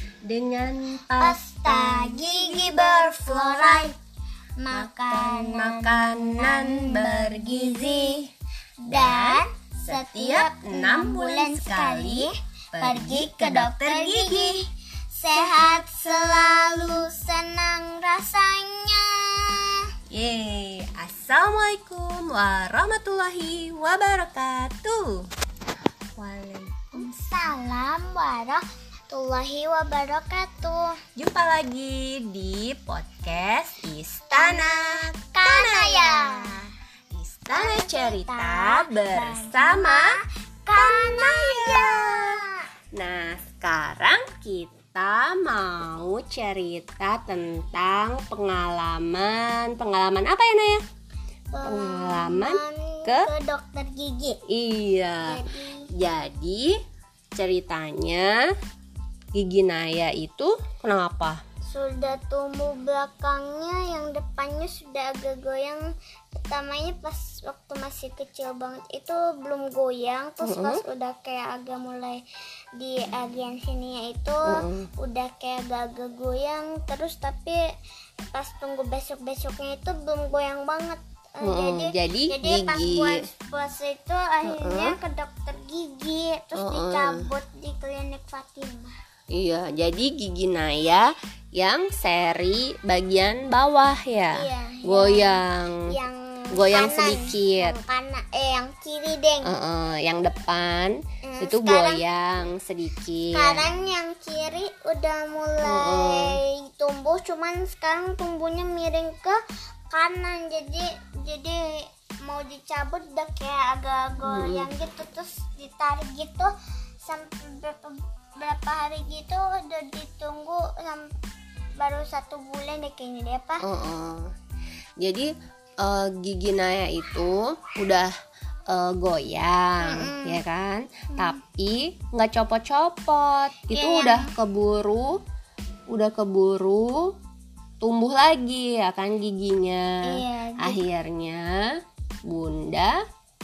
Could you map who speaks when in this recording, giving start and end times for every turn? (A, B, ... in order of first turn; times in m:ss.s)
0:00.2-0:03.9 A
0:01.2-0:04.0 B
0:04.6-0:08.3 B
0:04.7-0:08.2 A
0:08.8-0:19.8 B
0:08.9-0:14.6 A
0:20.1-0:25.3 A
0:26.2-0:27.1 A
0:26.9-0:31.0 B
0:31.2-0:40.1 A
0:34.3-0:36.7 B
0:37.5-0:42.7 B
0:40.8-0:42.4 A
0:42.9-0:50.8 A
0:51.5-0:54.4 B
0:51.6-0:53.3 A
0:54.5-0:55.4 A
0:55.2-0:55.9 B
0:55.9-0:56.8 A
0:57.4-0:58.5 A
0:59.3-1:01.4 A
1:01.7-1:05.8 B
1:06.5-1:12.2 B
1:10.4-1:10.8 A
1:12.8-1:17.6 B
1:14.5-1:14.9 A
1:18.3-1:28.9 B
1:21.4-1:23.2 A
1:24.4-1:25.0 A
1:26.6-1:27.2 A
1:29.3-1:36.0 A
1:34.3-1:39.5 B
1:36.5-1:37.8 A
1:39.4-1:43.7 A
1:41.2-1:42.0 B
1:43.3-1:49.4 B
1:45.6-1:46.4 A
1:49.9-1:56.5 B
1:54.2-1:54.7 A
1:57.0-2:01.1 B
2:01.8-2:03.6 B
2:03.6-2:04.3 A
2:05.0-2:08.1 A
2:08.7-2:15.2 A
2:09.8-2:10.4 B
2:13.7-2:14.3 B
2:15.9-2:17.2 A
2:17.8-2:23.0 A
2:20.0-2:20.8 B